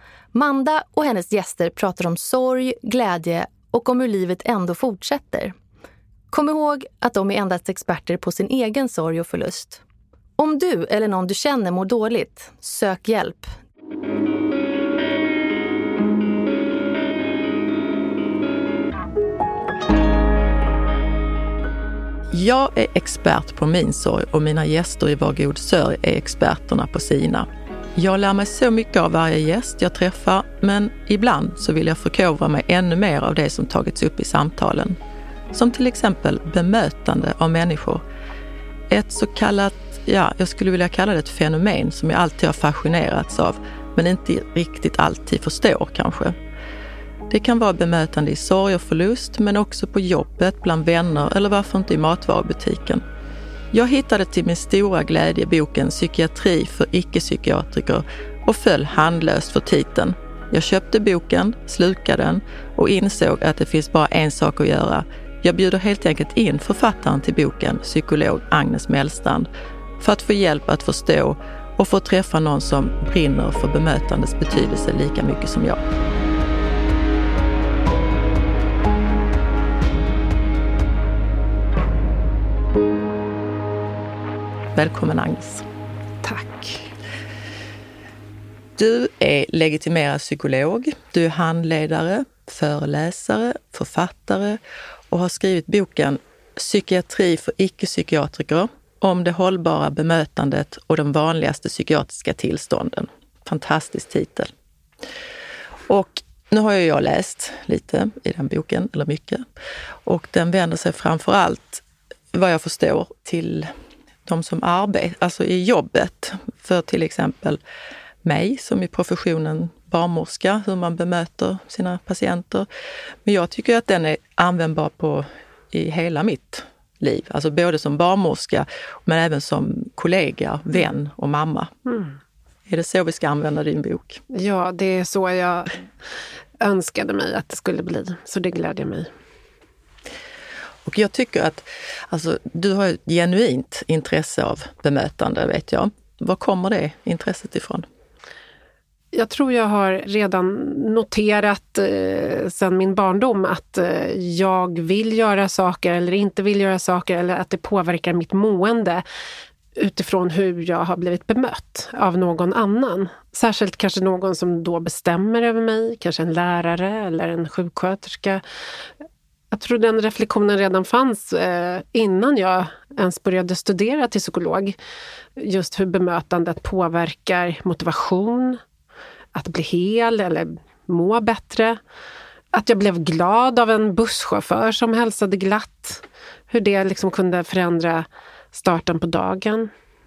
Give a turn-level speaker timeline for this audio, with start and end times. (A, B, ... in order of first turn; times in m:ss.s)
0:00.3-0:05.5 A
0:06.3-0:09.8 A
0:10.4-0:13.5 A
0:22.3-0:35.0 B
0:35.5-0:38.0 B
0:38.9-0:46.3 B
0:47.3-0:53.0 B
0:53.7-1:09.5 B
1:10.0-1:15.8 B
1:24.8-1:25.6 B
1:26.2-1:26.9 C
1:28.8-1:34.6 B
1:35.1-1:44.5 B
1:45.9-1:49.4 B
1:50.1-1:53.7 B
1:54.3-1:57.6 B
1:58.2-2:02.7 B
2:03.2-2:11.7 B
2:11.9-2:12.1 C
2:12.7-2:14.2 B
2:14.3-2:15.9 C
2:16.6-2:19.1 C
2:20.8-2:27.9 B
2:29.1-2:39.0 C
2:39.8-2:48.4 C
2:49.5-2:54.8 C
2:55.4-2:58.6 C
2:59.3-3:01.8 C
3:02.5-3:09.7 C